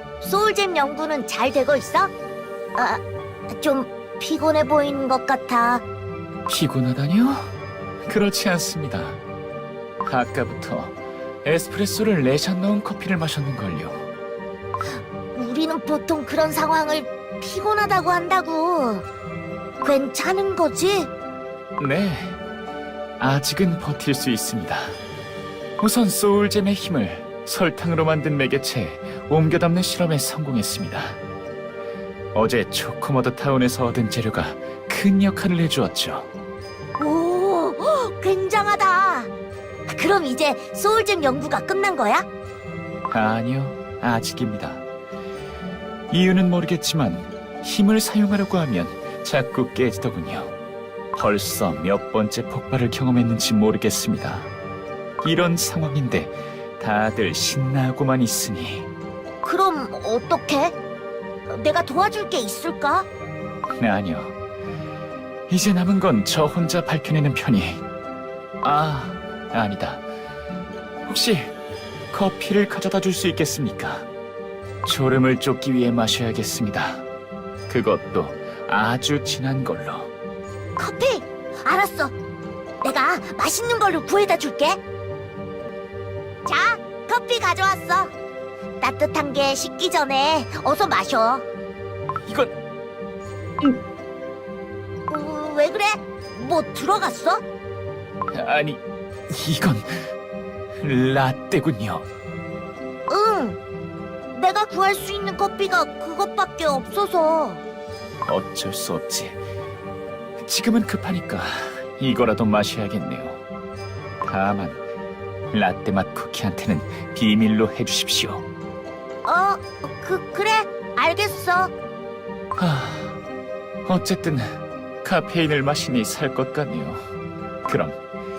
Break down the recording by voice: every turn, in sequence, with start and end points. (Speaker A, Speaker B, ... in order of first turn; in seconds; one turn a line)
Speaker A: 0.2-2.1
Speaker A: 2.8-5.8
Speaker B: 6.5-7.5
Speaker B: 8.1-9.2
Speaker B: 10.0-14.1
Speaker A: 14.9-19.0
Speaker A: 19.8-21.1
Speaker B: 21.8-22.4
Speaker B: 23.2-25.0
Speaker B: 25.8-31.2
Speaker B: 32.3-36.3
Speaker A: 37.0-39.3
Speaker A: 39.9-42.2
Speaker B: 43.1-44.8
Speaker B: 46.1-50.5
Speaker B: 51.1-54.5
Speaker B: 55.2-58.9
Speaker A: 59.4-60.7
Speaker A: 61.5-63.1
Speaker B: 63.8-64.3
Speaker B: 65.5-67.8
Speaker B: 68.6-70.0
Speaker B: 71.0-71.5
Speaker B: 72.1-74.1
Speaker B: 74.8-77.0
Speaker B: 77.7-80.1
Speaker A: 80.8-82.1
Speaker A: 82.8-84.8
Speaker A: 86.5-88.1
Speaker A: 88.8-91.4
Speaker B: 92.2-92.5
Speaker A: 95.1-97.4
Speaker B: 98.3-100.0
Speaker B: 100.8-102.0
Speaker A: 103.1-103.6
Speaker A: 104.3-107.6
Speaker B: 108.2-109.4
Speaker B: 110.4-113.4
Speaker B: 114.2-114.8
Speaker B: 115.5-118.4
Speaker A: 119.2-121.7
Speaker B: 122.5-123.2
Speaker B: 123.8-127.0
Speaker B: 127.7-128.0